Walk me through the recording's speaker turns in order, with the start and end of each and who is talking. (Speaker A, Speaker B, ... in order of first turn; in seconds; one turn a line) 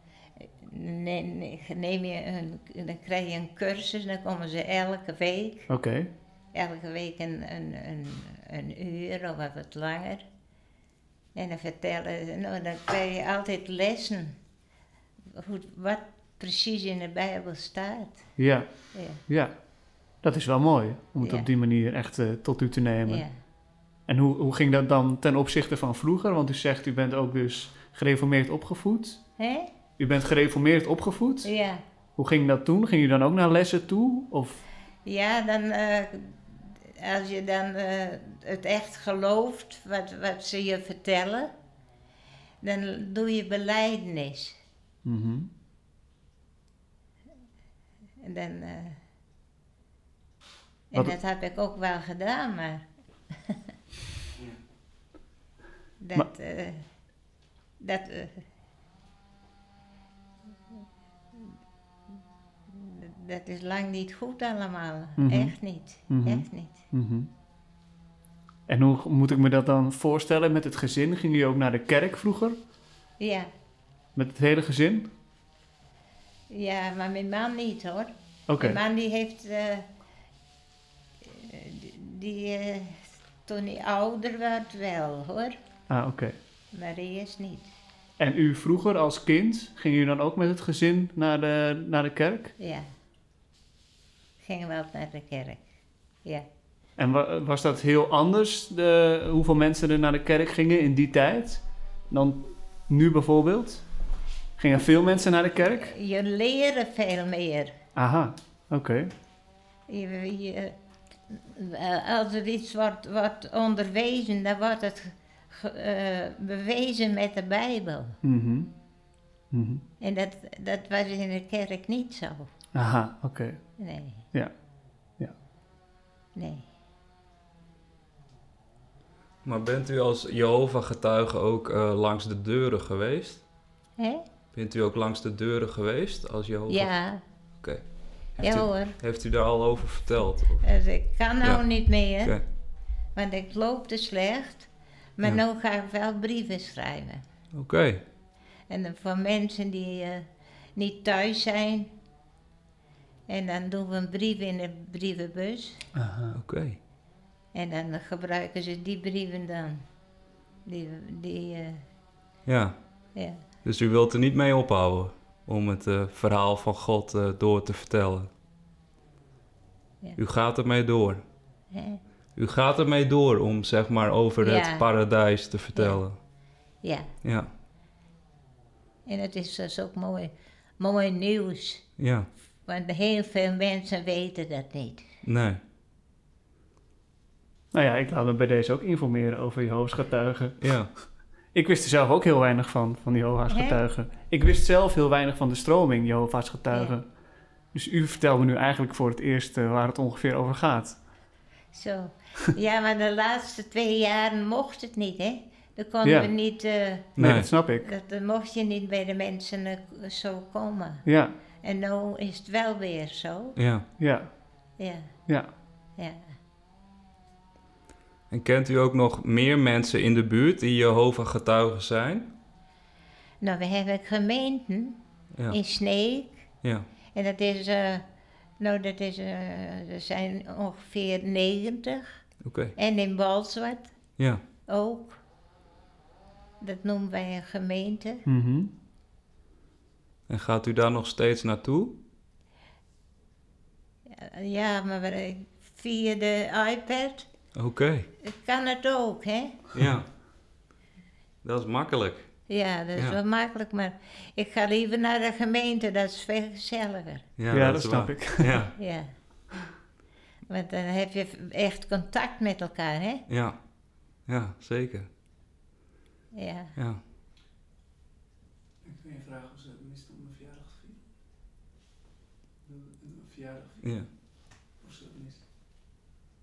Speaker A: 0.4-5.7
Speaker B: 5.7-6.1
Speaker A: 6.5-10.3
Speaker A: 11.3-14.4
Speaker A: 15.3-18.2
Speaker B: 18.4-18.7
Speaker A: 18.9-19.2
Speaker B: 19.3-19.5
Speaker B: 20.2-23.2
Speaker A: 21.2-21.5
Speaker A: 23.1-23.4
Speaker B: 24.1-29.2
Speaker A: 29.4-29.7
Speaker B: 30.0-31.5
Speaker A: 31.4-31.8
Speaker B: 32.2-34.6
Speaker A: 35.1-41.5
Speaker A: 42.6-44.6
Speaker B: 45.0-45.5
Speaker A: 48.2-49.0
Speaker A: 50.9-52.9
Speaker A: 56.0-56.9
Speaker A: 57.8-58.4
Speaker A: 62.7-66.8
Speaker B: 65.2-65.5
Speaker B: 66.1-67.3
Speaker B: 68.7-72.6
Speaker A: 73.2-73.5
Speaker B: 74.2-75.1
Speaker A: 76.5-79.9
Speaker B: 78.5-78.8
Speaker A: 81.2-85.6
Speaker B: 85.9-86.4
Speaker A: 86.7-87.7
Speaker B: 88.2-92.5
Speaker A: 92.6-92.9
Speaker A: 94.4-95.6
Speaker B: 97.0-103.8
Speaker B: 104.6-105.9
Speaker A: 105.8-107.8
Speaker B: 108.0-109.1
Speaker A: 109.9-110.8
Speaker A: 111.3-118.2
Speaker B: 118.2-118.7
Speaker B: 119.5-119.8
Speaker A: 120.0-122.5
Speaker B: 122.8-123.6
Speaker A: 123.8-124.3
Speaker A: 126.4-126.7
Speaker C: 129.4-133.4
Speaker A: 134.0-134.2
Speaker C: 134.5-136.9
Speaker A: 136.7-137.2
Speaker C: 137.6-140.7
Speaker A: 138.4-139.0
Speaker A: 140.6-142.4
Speaker A: 143.2-147.2
Speaker C: 147.5-148.0
Speaker A: 148.7-151.9
Speaker A: 153.3-155.9
Speaker B: 155.9-156.4
Speaker C: 156.3-156.8
Speaker A: 157.5-159.8
Speaker A: 160.7-161.8
Speaker C: 162.5-163.1
Speaker A: 163.2-163.4
Speaker C: 163.6-168.3
Speaker C: 170.2-171.2
Speaker A: 171.7-172.0
Speaker C: 172.4-176.2
Speaker A: 174.4-174.9
Speaker A: 175.7-176.1
Speaker A: 176.8-177.1
Speaker C: 177.2-177.5
Speaker A: 179.1-181.9
Speaker C: 182.0-182.3
Speaker A: 182.7-185.0
Speaker C: 185.2-185.6
Speaker B: 187.7-190.8
Speaker C: 190.6-190.9
Speaker B: 191.5-197.1
Speaker A: 193.5-193.8
Speaker B: 197.7-201.0
Speaker A: 201.7-207.2
Speaker B: 206.0-206.3
Speaker C: 207.2-207.5
Speaker B: 207.2-207.9
Speaker A: 207.8-211.1
Speaker B: 211.1-211.3
Speaker A: 211.6-213.6
Speaker C: 213.6-213.8
Speaker B: 214.0-214.3
Speaker A: 214.8-215.1
Speaker A: 216.0-216.3
Speaker C: 218.3-222.3
Speaker A: 223.4-225.0
Speaker A: 225.5-226.4
Speaker A: 227.1-228.1
Speaker A: 228.6-232.2
Speaker C: 232.4-232.8
Speaker A: 232.8-233.9
Speaker A: 234.7-235.2
Speaker A: 236.6-238.2
Speaker B: 238.3-238.7
Speaker C: 240.3-242.0
Speaker A: 244.1-247.3
Speaker C: 247.6-248.1
Speaker A: 248.2-249.6
Speaker C: 249.7-250.1
Speaker C: 251.4-253.2
Speaker A: 252.5-257.2
Speaker C: 257.4-258.8
Speaker B: 257.5-258.5
Speaker A: 258.8-259.1
Speaker A: 260.5-263.2
Speaker C: 263.3-263.7
Speaker C: 264.2-265.1
Speaker A: 266.3-266.8
Speaker C: 266.8-267.0
Speaker D: 268.8-271.0
Speaker D: 272.6-273.9
Speaker C: 273.8-274.1
Speaker D: 274.8-275.4